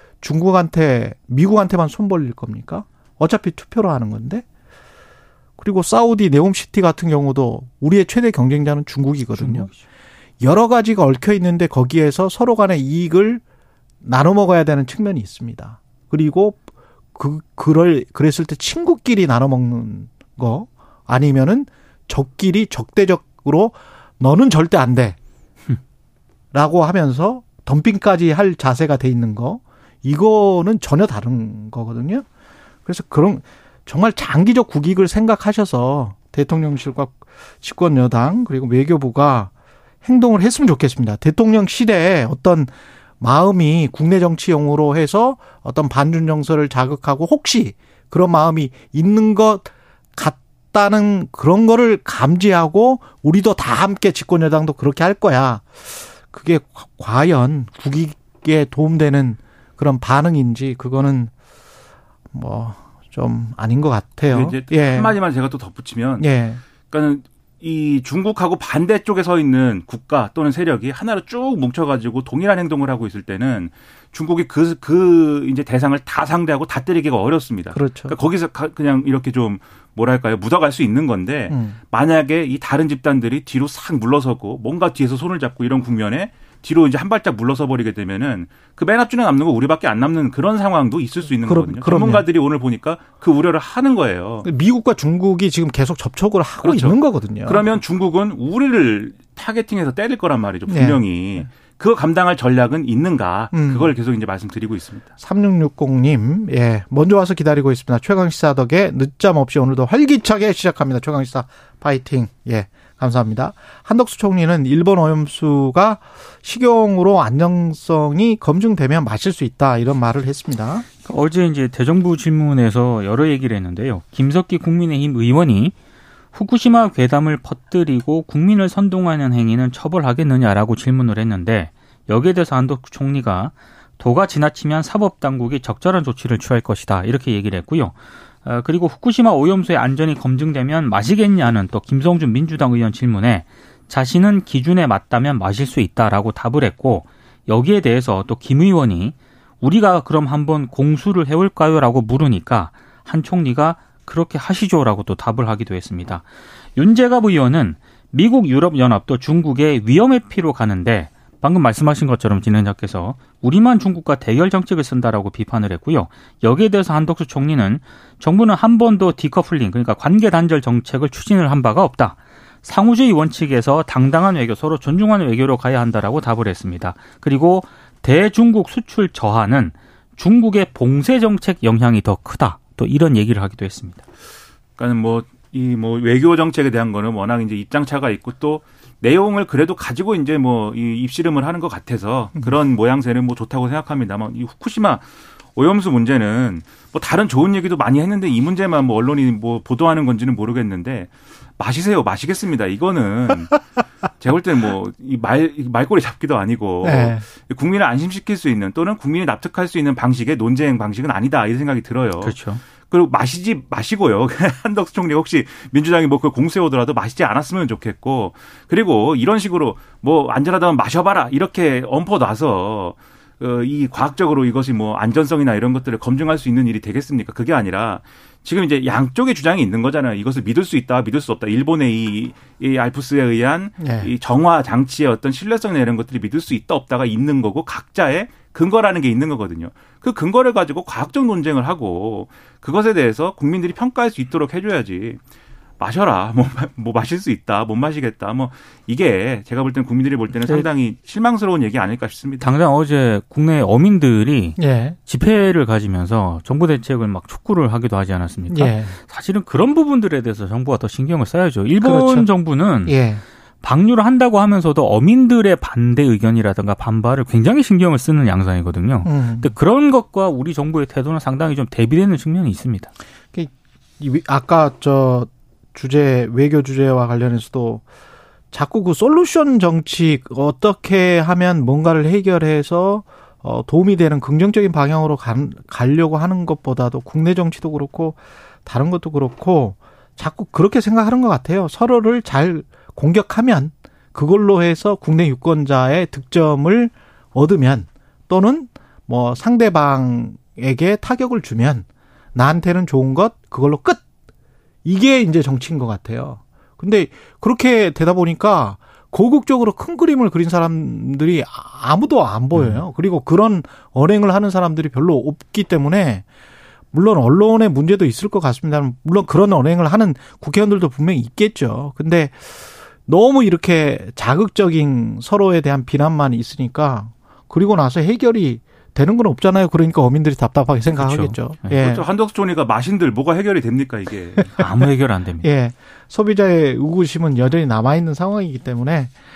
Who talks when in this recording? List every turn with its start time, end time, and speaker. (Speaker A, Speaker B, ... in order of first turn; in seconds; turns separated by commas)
Speaker A: 0.2-4.4, Speaker A: 5.6-9.7, Speaker B: 9.3-9.8, Speaker A: 10.4-13.4, Speaker A: 14.0-25.2, Speaker A: 26.5-32.2, Speaker A: 32.9-39.5, Speaker A: 40.0-61.3, Speaker A: 62.3-65.2, Speaker C: 64.3-66.3, Speaker A: 66.2-66.6, Speaker C: 66.9-94.5, Speaker A: 77.7-78.2, Speaker A: 81.5-81.8, Speaker A: 91.4-92.2, Speaker A: 94.4-97.7, Speaker C: 96.6-105.1, Speaker A: 100.7-101.5, Speaker A: 103.5-103.9, Speaker A: 105.2-120.8, Speaker B: 121.0-125.7, Speaker B: 126.3-156.2, Speaker B: 156.8-184.0, Speaker C: 184.8-203.6, Speaker C: 204.2-212.3, Speaker A: 206.8-207.2, Speaker B: 212.2-212.6, Speaker C: 212.9-245.2, Speaker A: 233.8-234.1, Speaker C: 245.8-252.5, Speaker B: 252.4-263.0, Speaker A: 254.6-255.0, Speaker A: 258.5-259.0, Speaker A: 261.8-262.3, Speaker A: 262.8-263.2, Speaker B: 263.6-272.9, Speaker A: 269.0-269.5, Speaker A: 273.3-277.8, Speaker A: 278.5-304.0, Speaker A: 304.8-316.2, Speaker B: 312.5-312.8, Speaker A: 316.9-332.0, Speaker B: 330.9-331.7, Speaker C: 331.7-334.6, Speaker B: 334.5-335.5, Speaker A: 335.4-339.1